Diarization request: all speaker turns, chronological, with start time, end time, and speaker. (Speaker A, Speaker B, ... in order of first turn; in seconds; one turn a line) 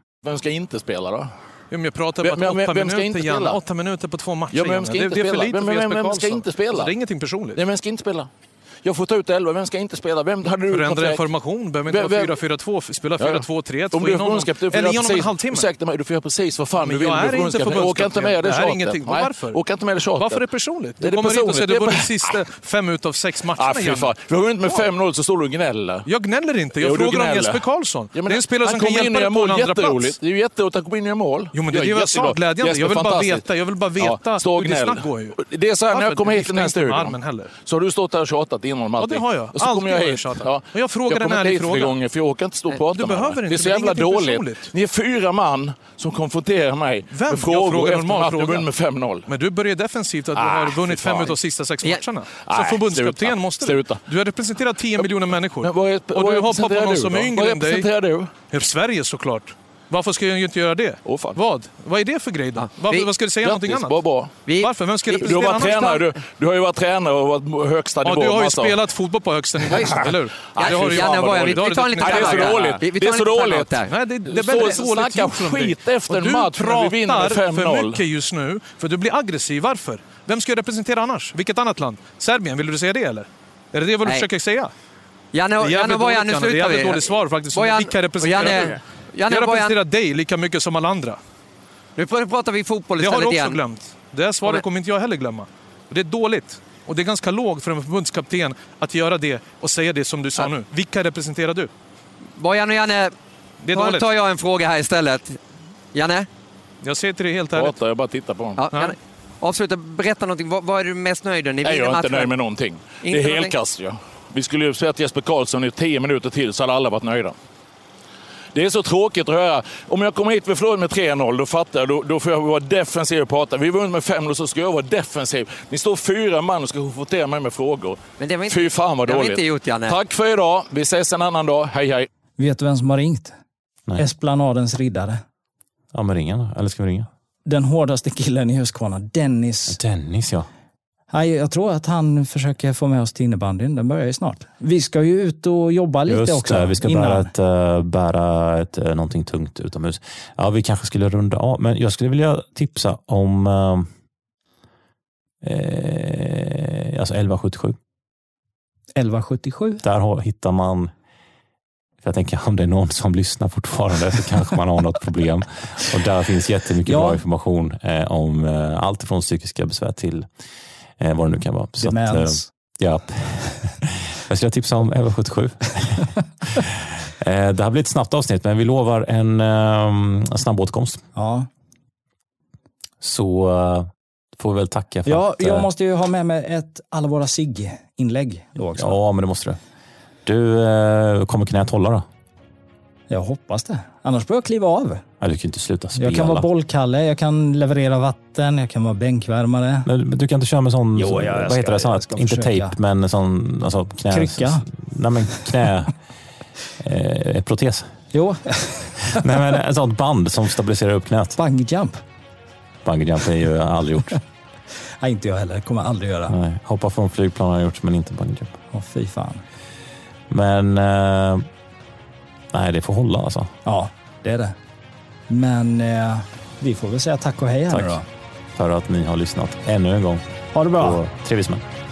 Speaker A: 0.2-1.3
Speaker B: 1.7-7.6
Speaker A: 2.2-3.6
Speaker A: 4.5-6.9
Speaker A: 7.5-8.3
Speaker A: 8.8-11.2
Speaker B: 10.7-15.7
Speaker A: 11.9-12.3
Speaker A: 13.2-20.4
Speaker B: 16.8-19.6
Speaker B: 20.1-24.1
Speaker A: 21.0-22.4
Speaker A: 23.6-26.1
Speaker B: 26.1-30.2
Speaker A: 26.8-27.6
Speaker A: 28.1-33.4
Speaker B: 31.5-35.4
Speaker A: 34.0-49.3
Speaker B: 35.9-37.5
Speaker B: 39.0-41.9
Speaker B: 42.9-44.7
Speaker B: 47.1-48.6
Speaker B: 49.3-57.9
Speaker A: 50.3-51.4
Speaker A: 52.4-54.0
Speaker A: 55.6-58.3
Speaker B: 58.5-64.0
Speaker A: 61.0-61.4
Speaker C: 62.6-63.1
Speaker A: 63.4-64.3
Speaker C: 64.5-66.0
Speaker B: 64.6-66.0
Speaker A: 65.2-68.8
Speaker B: 68.0-72.7
Speaker A: 69.7-78.0
Speaker C: 70.6-73.9
Speaker B: 73.9-84.7
Speaker C: 85.3-89.8
Speaker B: 85.6-91.2
Speaker C: 92.0-93.6
Speaker B: 93.0-101.7
Speaker C: 102.4-103.1
Speaker B: 103.6-104.0
Speaker C: 103.7-105.4
Speaker C: 105.9-106.3
Speaker B: 106.8-107.7
Speaker A: 107.5-108.6
Speaker C: 108.6-112.3
Speaker A: 111.6-117.3
Speaker C: 113.0-113.5
Speaker A: 118.5-132.1
Speaker C: 128.2-130.0
Speaker D: 132.4-133.3
Speaker D: 134.0-135.2
Speaker E: 135.9-137.1
Speaker D: 137.4-139.8
Speaker E: 139.7-140.5
Speaker D: 141.1-147.3
Speaker E: 146.1-153.9
Speaker E: 155.4-157.8
Speaker D: 158.9-159.8
Speaker E: 159.8-160.9
Speaker E: 162.0-170.3
Speaker D: 166.8-167.2
Speaker E: 171.0-181.0
Speaker D: 171.8-172.5
Speaker D: 181.1-181.5
Speaker E: 183.0-185.7
Speaker D: 185.1-189.0
Speaker E: 188.8-189.6
Speaker E: 190.2-192.0
Speaker D: 193.1-195.0
Speaker E: 195.2-196.5
Speaker D: 196.0-199.9
Speaker E: 199.8-205.9
Speaker D: 200.9-202.8
Speaker D: 204.1-204.7
Speaker E: 206.8-207.9
Speaker D: 208.1-209.4
Speaker E: 209.0-211.4
Speaker D: 211.4-212.0
Speaker E: 212.8-214.2
Speaker D: 215.0-216.4
Speaker E: 216.3-218.6
Speaker D: 218.7-219.4
Speaker E: 220.3-221.5
Speaker E: 222.5-223.5
Speaker D: 223.6-224.6
Speaker D: 225.3-228.0
Speaker E: 227.7-228.0
Speaker E: 228.5-231.7
Speaker D: 230.5-231.0